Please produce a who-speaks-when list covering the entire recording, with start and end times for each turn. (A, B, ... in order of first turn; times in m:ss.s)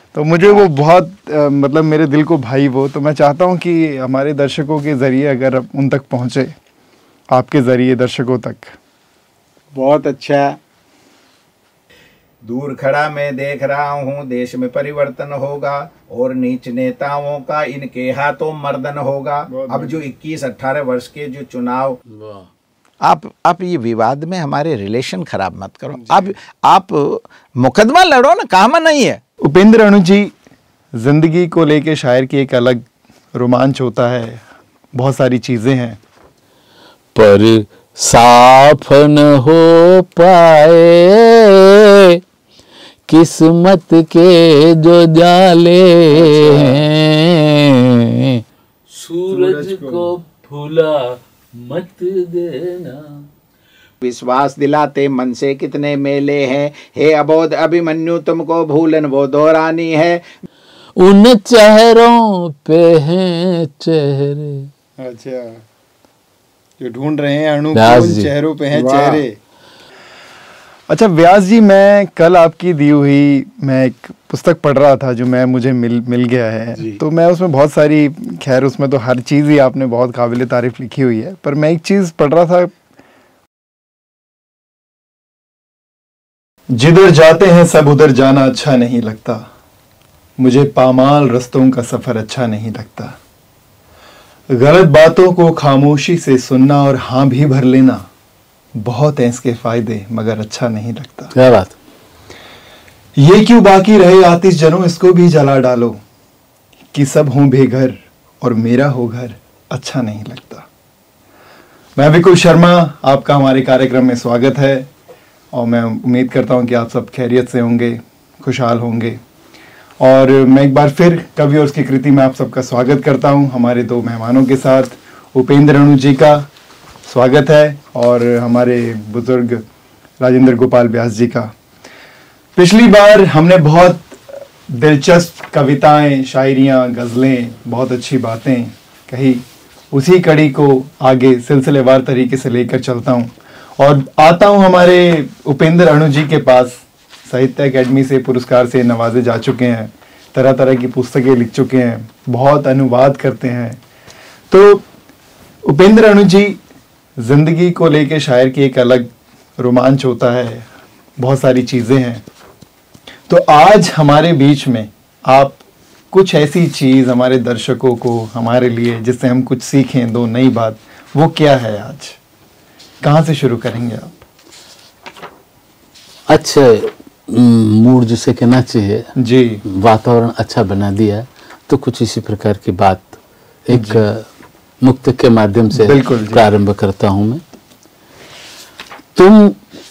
0:00.1-0:06.5 A
0:07.3-0:08.8 A
0:09.7-0:10.6 B
0:12.4-0:22.0 B
0:19.5-0:20.0 A
0:22.1-0:22.5 C
0:23.0-0:29.2 B
0:25.9-0:26.3 A
0:29.4-0:30.3 A
0:31.0-0:34.4 A
0:35.0-0:36.0 A
0:37.2-0:42.2 C
0:43.1-0:53.3 C
0:46.1-0:46.6 A
0:49.3-0:50.1 A
0:54.0-1:00.3 B
1:01.0-1:04.7 C
1:05.0-1:05.6 A
1:06.8-1:09.4 A
1:07.8-1:08.3 C
1:08.7-1:09.2 B
1:10.9-1:22.7 A
1:26.7-1:29.5 A
1:30.4-1:33.2 A
1:34.5-1:38.1 A
1:38.8-1:41.3 A
1:41.4-1:41.8 C
1:43.2-1:46.0 A
1:46.9-1:50.7 A
1:52.0-1:54.9 A
1:55.5-1:59.2 A
2:00.0-2:06.5 A
2:07.1-2:09.6 A
2:10.2-2:11.5 A
2:12.6-2:33.8 A
2:34.5-2:34.8 A
2:35.7-2:36.6 A
2:37.2-2:40.7 A
2:41.2-2:42.2 A
2:43.3-2:45.6 A
2:46.1-2:52.2 A
2:53.0-2:54.2 A
2:56.3-2:59.1 C
2:59.2-2:59.6 A
2:59.8-3:03.2 C
3:03.7-3:04.2 C
3:03.7-3:04.0 A
3:04.8-3:07.4 C
3:05.7-3:06.5 A
3:09.2-3:09.6 C